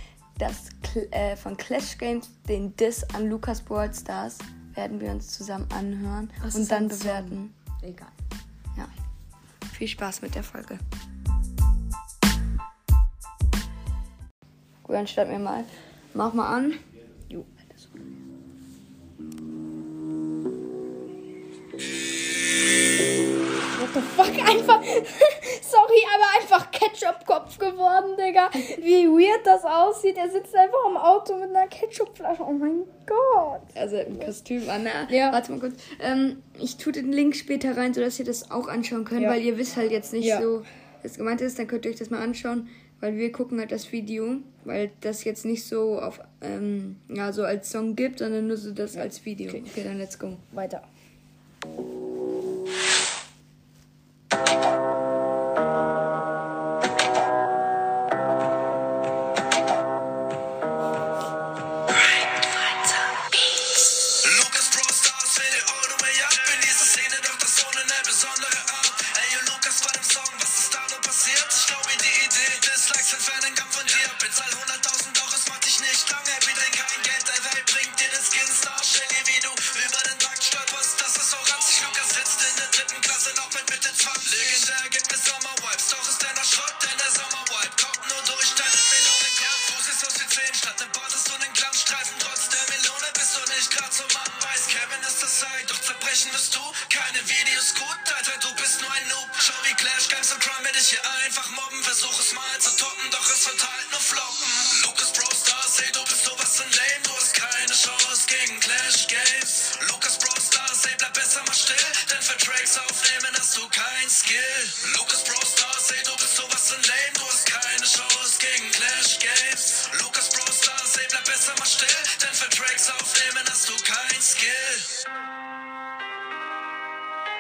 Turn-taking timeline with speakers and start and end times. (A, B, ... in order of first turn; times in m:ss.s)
0:00.4-0:07.5 A
0:06.4-0:08.1 B
0:09.7-0:10.8 A
0:14.8-0:16.8 A
0:17.3-0:17.7 B
0:23.7-0:33.7 B
0:33.7-0:50.4 A
0:35.1-0:35.4 B
0:40.2-0:40.5 B
0:48.9-0:49.7 B
0:50.5-0:50.9 B
1:04.2-2:04.9 C